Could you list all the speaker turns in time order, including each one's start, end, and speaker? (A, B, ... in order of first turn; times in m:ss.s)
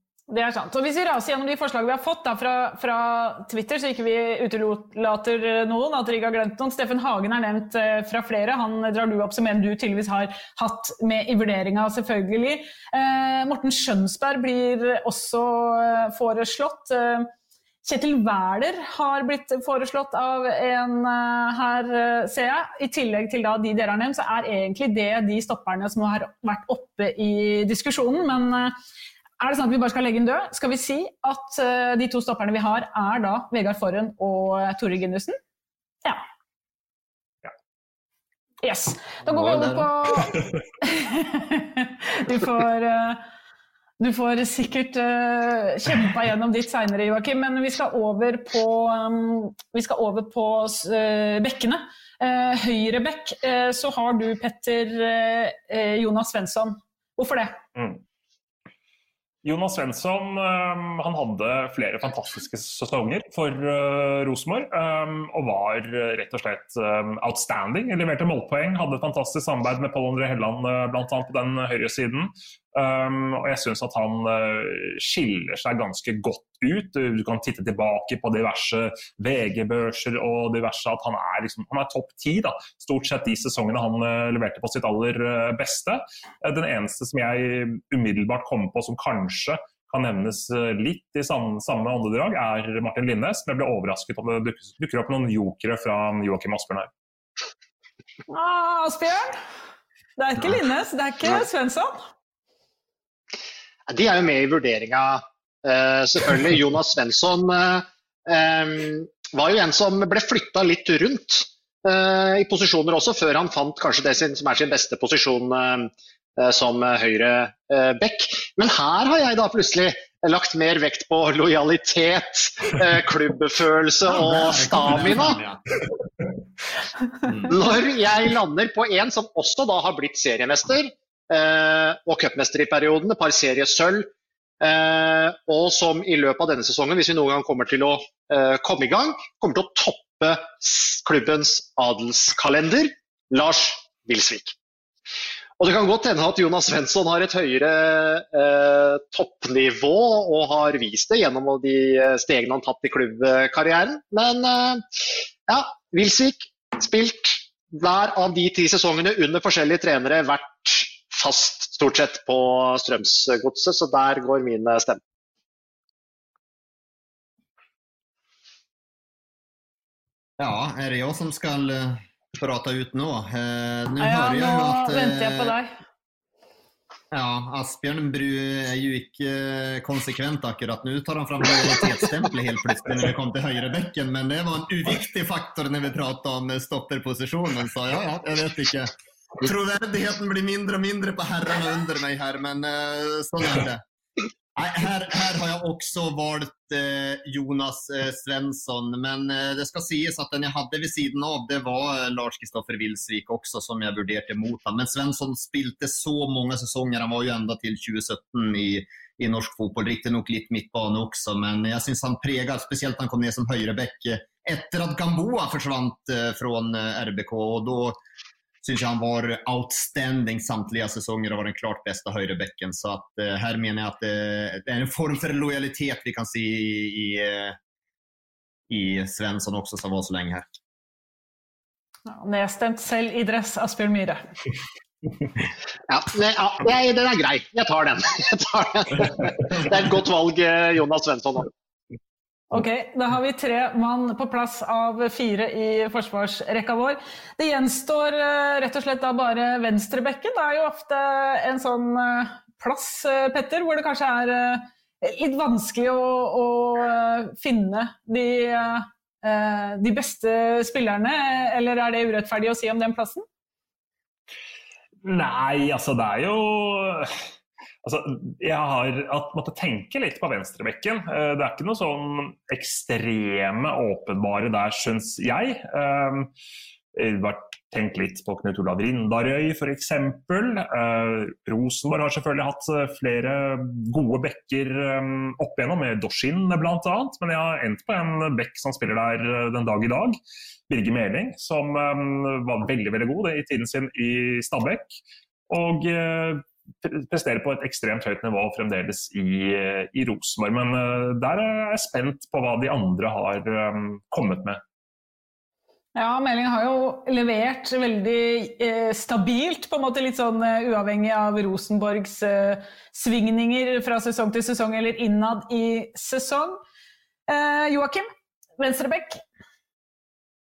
0:00.3-0:17.3 A
0:17.8-0:28.8 A
0:29.4-0:35.4 A
0:38.6-0:43.2 A
0:39.3-0:39.9 B
0:44.0-0:57.6 A
0:57.8-0:58.0 C
0:59.4-1:36.9 C
1:38.3-1:39.4 A
1:40.2-1:42.0 A
1:43.9-2:05.4 D
2:04.1-2:05.6 B
2:07.3-2:07.6 B
2:07.5-2:14.1 D
2:14.6-2:24.6 D
2:25.6-2:34.8 D
2:35.5-2:45.0 D
2:50.4-2:55.6 B
2:54.0-2:55.7 A
2:57.1-3:13.8 B
3:14.6-3:38.0 B
3:38.6-3:47.6 B
3:48.7-3:50.5 B
3:52.1-3:54.2 A
3:55.9-4:01.5 D
4:02.5-4:23.2 A
4:25.0-4:27.1 C
4:27.8-4:36.3 C
4:37.0-4:55.0 C
4:55.5-5:04.6 C
5:06.0-5:16.6 A
5:17.3-5:18.1 A
5:18.6-5:19.2 A